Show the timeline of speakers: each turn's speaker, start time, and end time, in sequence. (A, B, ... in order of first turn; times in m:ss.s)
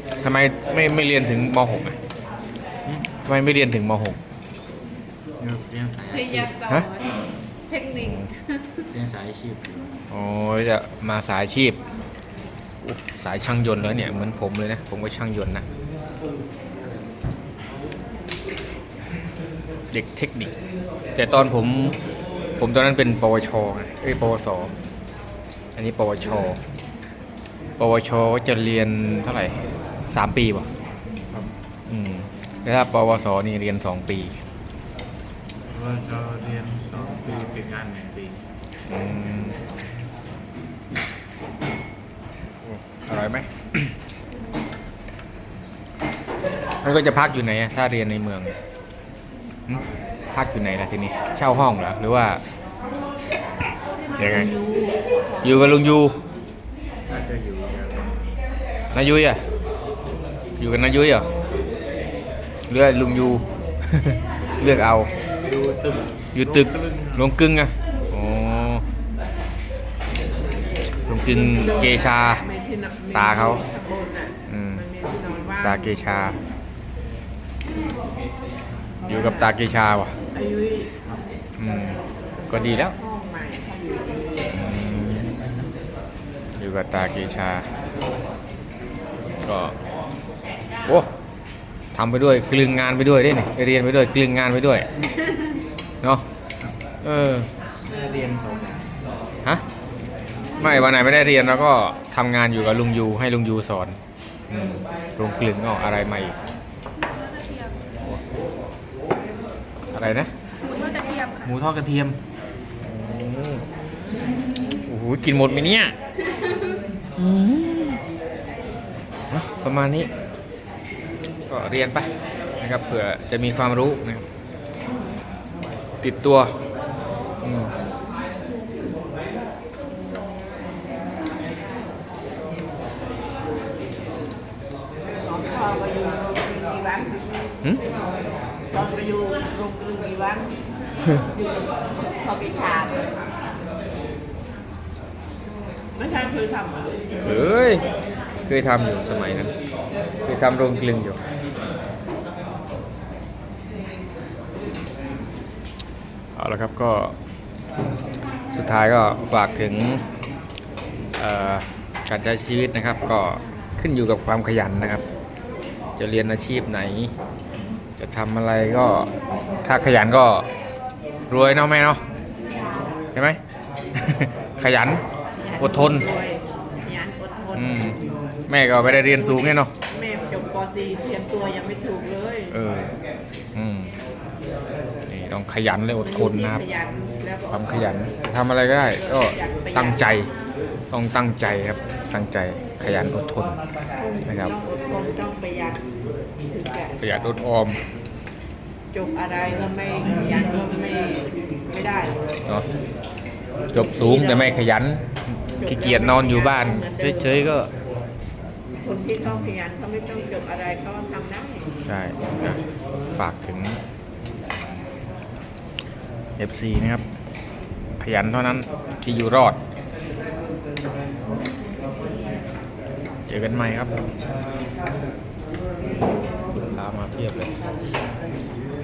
0:00.2-0:02.0 A
0:02.9-0:04.2 A
0:05.4-0:06.4 B
0:06.1-0:08.9 C
0:06.5-0:06.9 A
0:08.0-0:08.3 A
0:08.9-0:09.9 B
0:10.1-0:11.8 A
0:12.8-0:15.7 A
0:19.9-0:20.5 A
0:21.2-0:22.0 A
0:22.6-0:24.7 A
0:25.8-0:26.6 A
0:27.8-0:29.6 A
0:30.1-0:30.7 A
0:31.9-0:34.4 A
0:35.7-0:38.4 B
0:38.9-0:39.6 A
0:42.6-0:43.9 A
0:46.8-0:48.6 A
0:49.7-0:52.4 A
0:54.2-0:54.5 A
0:54.4-0:55.4 D
0:55.4-0:56.2 A
0:57.1-0:58.2 B
0:58.9-0:59.4 A
1:00.6-1:01.3 A
1:02.7-1:05.1 A
1:05.4-1:07.2 B
1:06.3-1:08.8 A
1:11.1-1:12.4 A
1:11.2-1:16.1 D
1:13.1-1:13.6 A
1:14.5-1:14.8 A
1:15.6-1:16.4 A
1:19.0-1:20.1 A
1:19.1-1:19.5 D
1:20.3-1:21.0 D
1:21.6-1:23.0 A
1:22.5-1:24.5 D
1:24.5-1:25.3 A
1:26.6-1:27.7 A
1:29.4-1:29.8 A
1:30.8-1:31.1 A
1:31.9-1:34.9 A
1:37.0-1:37.5 A
1:37.9-1:38.8 B
1:40.6-1:44.0 A
1:44.5-1:46.4 A
1:47.3-1:47.8 C
1:49.9-1:50.3 A
1:50.7-1:51.4 C
1:51.4-1:52.2 A
1:52.8-1:53.6 A
1:54.9-1:56.0 A
1:57.2-1:58.0 A
1:59.3-2:00.1 A
2:01.5-2:02.1 A
2:02.6-2:04.3 A
2:06.0-2:06.5 A
2:07.4-2:07.7 A
2:15.2-2:17.6 D
2:18.7-2:20.6 D
2:21.4-2:23.2 D
2:26.0-2:27.0 D
2:27.2-2:27.8 A
2:28.5-2:29.5 A
2:30.2-2:31.2 A
2:36.4-2:37.2 A
2:38.5-2:40.0 A
2:41.2-2:45.0 A
2:46.0-2:47.1 A
2:48.0-2:49.1 A
2:49.6-2:50.5 A
2:51.3-2:52.0 A
2:53.2-2:53.4 A
2:54.0-2:55.0 A
2:55.4-2:58.1 D
2:55.6-2:56.1 A
2:57.5-2:58.0 A
2:58.5-2:59.7 A
2:58.8-3:02.6 D
3:02.5-3:02.9 A
3:03.5-3:03.9 A
3:05.1-3:06.6 A
3:06.0-3:08.0 D
3:07.5-3:10.3 A
3:08.8-3:10.2 D
3:10.9-3:13.6 A
3:14.0-3:15.8 D
3:14.3-3:14.5 A
3:16.4-3:17.0 D
3:17.0-3:17.8 A
3:18.9-3:22.2 D
3:23.7-3:27.7 A
3:23.9-3:24.6 D
3:25.6-3:27.4 D
3:28.8-3:31.7 D
3:29.2-3:29.6 A
3:31.9-3:32.6 A
3:33.2-3:33.8 A
3:36.4-3:37.0 A
3:38.0-3:39.6 A
3:43.3-3:43.9 A
3:46.7-3:47.5 A